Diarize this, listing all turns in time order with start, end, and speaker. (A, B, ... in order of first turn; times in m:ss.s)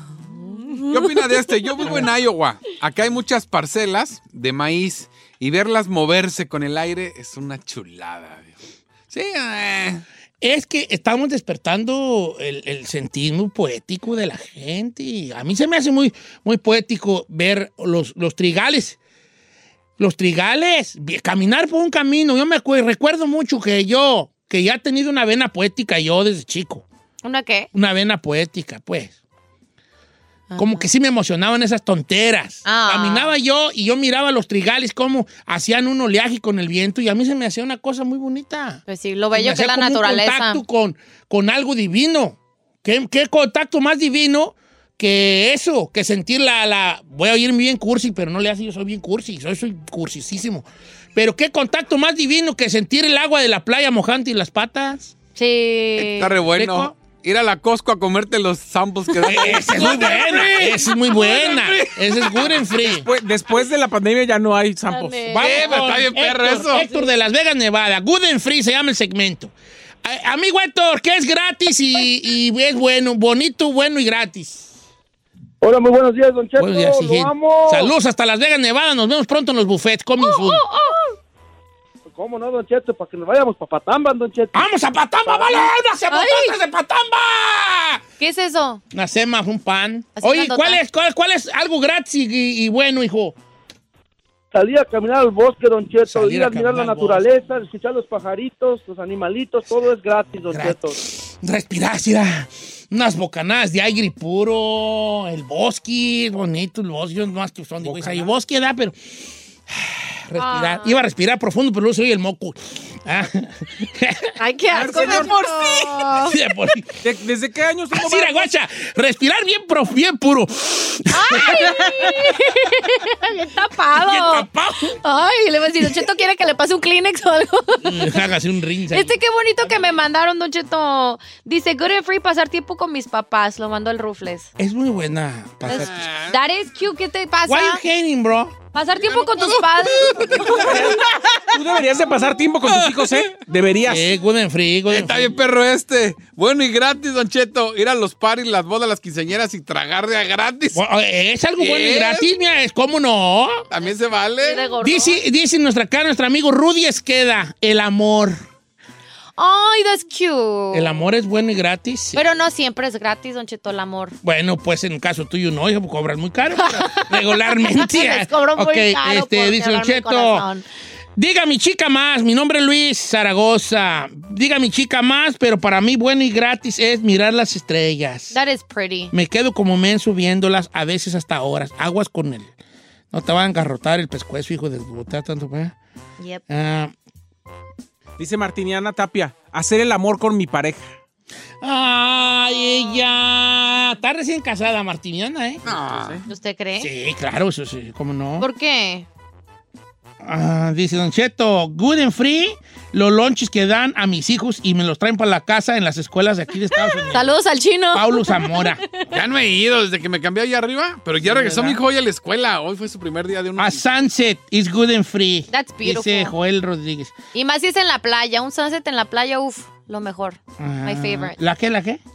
0:00.3-0:00.9 A
0:00.8-0:08.5 B
0:09.1-0:10.0 B
0:10.4-0:19.0 C
0:20.0-0:26.8 C
0:27.2-0:27.7 A
0:27.7-0:29.1 C
0:30.5-0:30.8 A
0:30.6-0:38.8 C
0:32.6-0:33.3 A
0:38.9-0:40.6 A
0:39.3-0:55.1 C
0:55.4-0:56.3 A
0:56.0-1:02.9 B
0:56.5-0:56.9 C
0:59.2-1:03.1 C
0:59.5-0:59.8 A
1:02.8-1:05.3 D
1:04.9-1:05.8 A
1:05.3-1:09.5 C
1:05.3-1:06.9 B
1:06.7-1:07.1 A
1:10.0-1:14.7 C
1:15.6-1:17.9 E
1:16.6-1:20.6 C
1:20.2-1:21.1 A
1:22.1-1:24.7 E
1:24.5-1:28.0 C
1:25.3-1:26.5 A
1:28.2-1:28.8 A
1:28.9-1:33.4 C
1:30.2-1:30.8 A
1:34.5-1:41.0 E
1:36.0-1:37.3 C
1:40.5-1:49.0 C
1:47.8-1:48.4 D
1:49.7-1:54.3 C
1:50.4-1:51.0 A
1:54.4-1:56.4 A
1:54.7-1:55.4 D
1:56.1-1:57.0 C
1:57.0-1:58.5 D
1:57.9-2:02.3 C
2:01.1-2:08.3 A
2:03.9-2:05.0 C
2:07.8-2:09.2 C
2:08.9-2:14.5 A
2:14.6-2:16.1 C
2:15.7-2:17.8 A
2:15.7-2:16.4 B
2:17.5-2:18.6 C
2:18.7-2:20.6 A
2:19.0-2:20.7 B
2:20.4-2:20.8 C
2:20.4-2:24.1 D
2:23.8-2:25.3 C
2:24.9-2:30.8 B
2:30.7-2:33.6 C
2:31.6-2:32.3 B
2:33.7-2:34.7 B
2:33.8-2:35.2 A
2:34.8-2:38.4 C
2:39.4-2:41.0 A
2:40.7-2:42.2 C
2:42.1-2:44.2 A
2:44.2-2:50.5 C
2:46.6-2:50.6 A
2:51.2-2:58.4 C
2:58.3-2:59.1 A
2:59.1-3:02.5 C
3:03.1-3:05.7 C
3:06.5-3:06.9 C
3:08.2-3:10.9 D
3:11.6-3:15.6 C
3:15.6-3:16.2 B
3:15.7-3:16.2 D
3:16.3-3:16.9 A
3:16.8-3:18.5 C
3:18.4-3:19.0 A
3:20.2-3:27.3 C
3:27.1-3:28.9 A
3:27.9-3:28.8 C
3:29.0-3:33.8 B
3:31.2-3:31.8 C
3:33.6-3:37.1 C
3:35.5-3:36.3 A
3:37.3-3:41.4 A
3:40.6-3:42.0 C